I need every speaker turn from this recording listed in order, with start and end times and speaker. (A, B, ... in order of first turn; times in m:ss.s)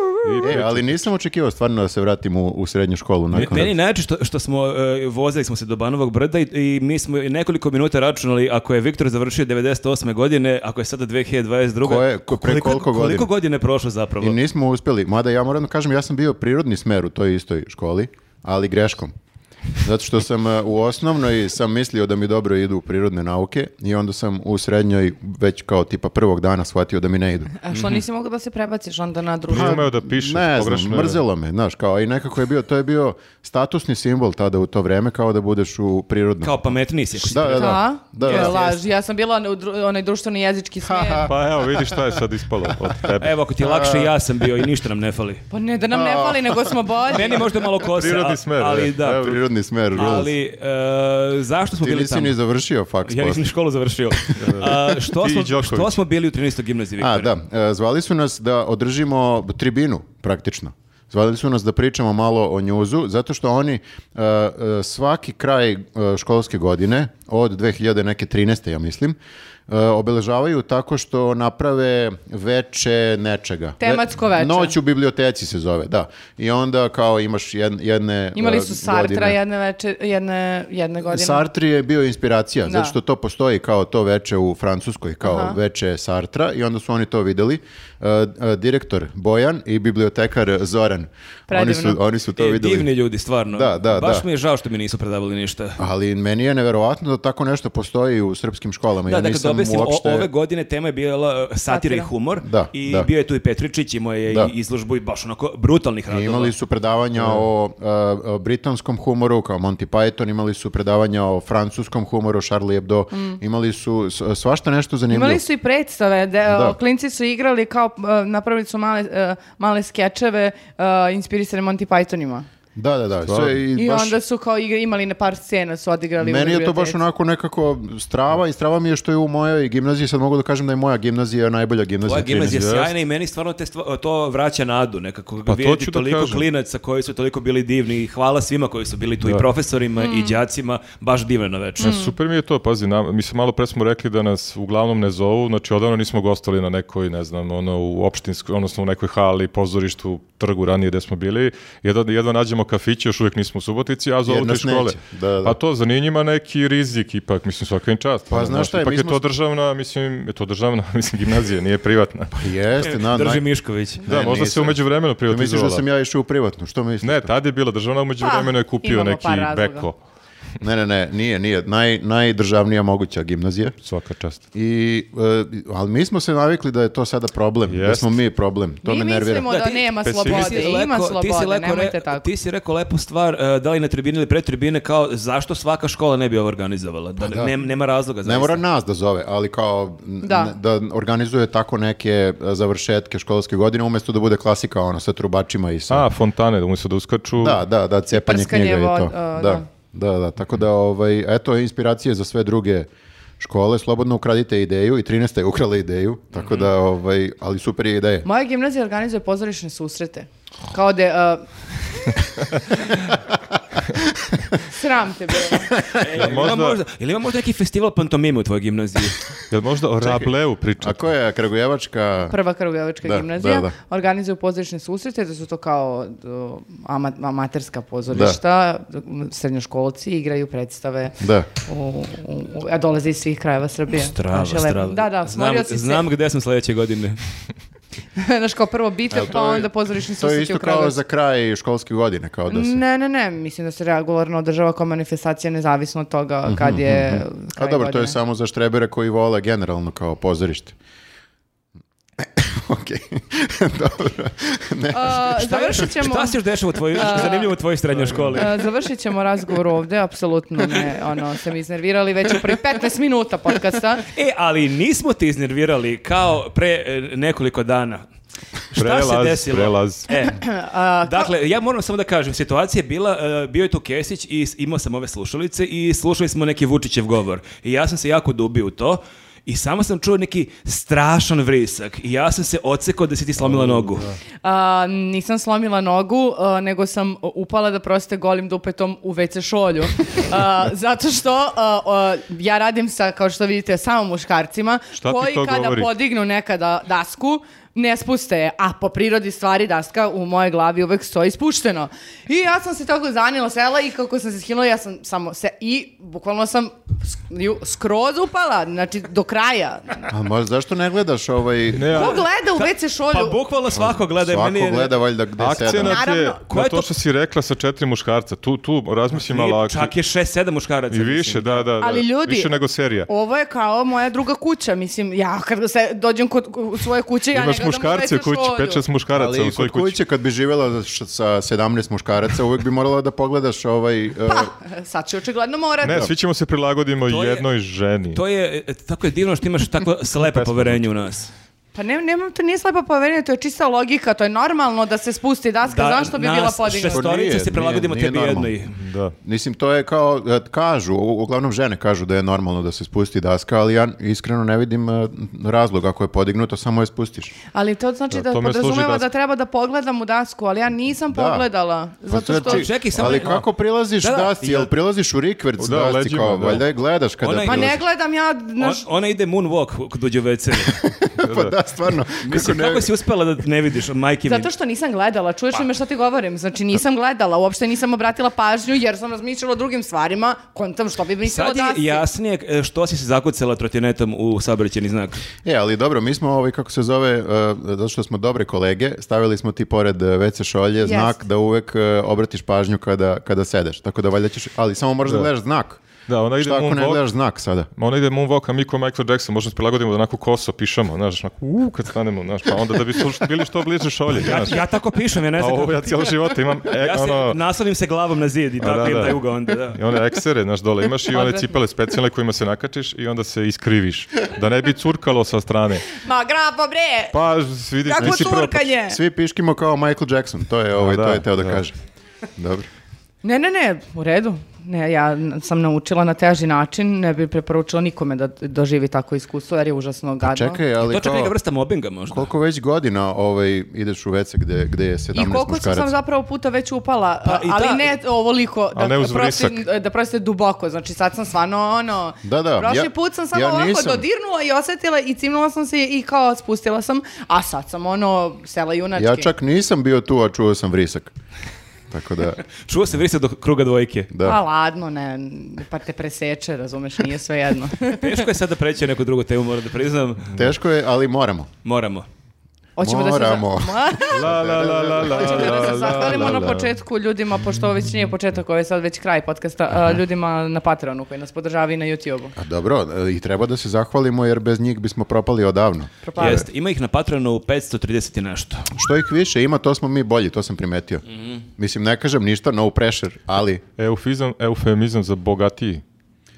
0:00.2-0:01.0 A
0:00.4-0:03.7 B
0:03.3-0:14.4 C
0:11.8-0:13.3 B
0:14.2-0:19.1 B
0:19.8-0:27.5 B
0:27.6-0:29.9 D
0:27.7-0:28.0 C
0:29.5-0:31.2 A
0:29.5-0:36.6 B
0:36.4-0:38.6 C
0:37.2-0:38.8 B
0:37.6-0:41.3 D
0:40.8-0:42.2 B
0:41.2-0:43.4 A
0:43.2-0:45.4 C
0:43.6-0:44.1 B
0:45.5-0:47.5 D
0:45.9-0:46.8 B
0:47.1-0:49.4 C
0:47.8-0:49.4 A
0:49.1-0:50.3 B
0:49.9-0:52.4 C
0:51.8-0:53.5 B
0:53.1-0:57.3 C
0:54.2-0:54.9 B
0:54.4-0:55.9 A
0:57.0-1:09.2 B
1:09.7-1:19.4 B
1:13.8-1:14.8 D
1:18.4-1:21.4 D
1:21.1-1:32.9 B
1:22.7-1:23.0 D
1:25.2-1:25.6 D
1:31.5-1:32.0 D
1:32.4-1:35.8 C
1:33.5-1:34.3 B
1:35.8-1:40.3 B
1:39.1-1:46.5 C
1:41.7-1:42.1 D
1:42.4-1:43.1 B
1:44.3-1:44.5 B
1:46.1-1:55.4 B
1:53.1-1:53.4 D
1:55.1-2:02.5 D
1:56.5-1:56.8 B
2:02.8-2:04.2 B
2:03.3-2:03.6 A
2:03.8-2:07.0 D
2:06.2-2:12.7 B
2:12.0-2:22.0 C
2:12.5-2:12.9 A
2:15.5-2:16.4 A
2:20.0-2:20.4 D
2:21.8-2:22.1 D
2:21.8-2:42.4 A
2:34.3-2:35.6 B
2:38.3-2:39.2 B
2:42.3-2:43.5 B
2:42.8-2:44.1 C
2:44.0-2:47.3 B
2:44.1-2:45.8 A
2:47.0-2:50.0 A
2:48.2-2:49.9 D
2:50.6-2:53.8 B
2:53.8-2:54.4 A
2:54.5-2:59.5 B
2:57.7-2:58.1 A
2:58.8-3:02.3 D
2:59.5-3:08.6 C
3:00.0-3:00.8 A
3:07.2-3:07.5 B
3:08.2-3:16.1 B
3:10.2-3:10.5 D
3:15.9-3:17.6 A
3:17.4-3:22.9 B
3:18.1-3:19.7 D
3:23.4-3:28.3 B
3:28.2-3:31.5 D
3:33.9-3:34.5 B
3:34.6-3:35.7 D
3:35.5-3:36.5 B
3:36.0-3:39.3 C
3:36.1-3:36.8 A
3:39.5-3:41.0 A
3:40.0-3:40.3 C
3:40.8-3:42.4 B
3:42.3-3:56.0 D
3:43.0-3:43.7 B
3:48.1-3:48.4 B
3:51.2-3:51.5 B
3:54.0-3:57.2 C
3:58.2-4:01.0 D
3:59.1-4:02.8 B
4:02.5-4:08.2 D
4:06.5-4:10.8 B
4:12.2-4:15.4 B
4:14.9-4:16.4 D
4:15.2-4:18.6 C
4:16.9-4:17.6 D
4:17.9-4:18.5 A
4:18.4-4:24.1 D
4:24.0-4:28.1 C
4:28.7-4:30.4 C
4:28.8-4:30.1 A
4:30.1-4:31.3 D
4:31.0-4:44.1 C
4:43.4-4:44.2 A
4:44.4-5:10.1 D
4:55.0-4:55.9 A
5:10.1-5:12.2 B
5:11.7-5:12.2 A
5:11.9-5:13.4 D
5:12.2-5:14.9 C
5:13.7-5:16.0 B
5:15.4-5:19.9 A
5:15.7-5:16.4 D
5:16.5-5:16.9 C
5:19.1-5:21.7 C
5:20.9-5:23.1 A
5:21.8-5:28.8 D
5:27.3-5:30.0 A
5:29.1-5:34.5 B
5:34.3-5:36.1 D
5:35.8-5:38.2 A
5:37.1-5:37.5 C
5:38.1-5:41.3 C
5:40.2-5:40.9 A
5:41.8-5:47.1 D
5:45.7-5:48.8 C
5:46.9-5:48.5 B
5:48.8-5:49.2 A
5:49.2-5:57.4 B
5:57.5-6:03.2 D
5:58.1-5:59.0 A
6:01.1-6:01.5 B
6:02.1-6:07.8 B
6:02.4-6:03.5 C
6:04.0-6:04.7 C
6:05.6-6:06.6 A
6:07.2-6:07.8 C
6:07.4-6:08.8 D
6:08.6-6:10.9 C
6:10.8-6:12.9 B
6:11.2-6:11.6 A
6:12.2-6:14.5 C
6:14.3-6:22.0 D
6:21.2-6:25.2 C
6:25.4-6:35.8 B
6:30.8-6:31.2 D
6:36.1-6:37.0 A
6:36.4-6:37.7 B
6:37.8-6:44.6 A
6:44.2-6:46.2 C
6:45.4-6:47.4 A
6:46.7-6:49.8 C
6:48.6-6:49.2 A
6:49.7-6:55.9 A
6:51.1-6:51.5 D
6:55.9-6:57.2 D
6:57.1-6:58.7 A
6:57.8-6:59.0 D
6:58.0-7:01.8 B
7:00.8-7:01.6 A
7:02.4-7:02.7 B
7:03.2-7:10.6 D
7:10.2-7:11.4 B
7:10.8-7:12.3 C
7:12.1-7:15.9 B
7:15.1-7:29.3 D
7:17.2-7:17.9 C
7:18.8-7:19.6 A
7:22.2-7:24.1 B
7:29.0-7:31.1 B
7:31.9-7:32.4 B
7:32.6-7:34.1 C
7:34.1-7:34.4 B
7:34.2-7:38.3 D
7:37.9-7:40.4 C
7:40.3-7:41.5 B
7:41.6-7:42.1 C
7:42.8-7:44.4 D
7:42.8-7:46.6 B
7:44.1-7:46.7 A
7:45.0-7:52.3 D
7:52.4-7:56.5 B
7:56.0-7:56.5 D
7:56.2-7:58.7 C
7:58.7-8:01.0 B
8:01.6-8:03.6 B
8:03.8-8:05.8 A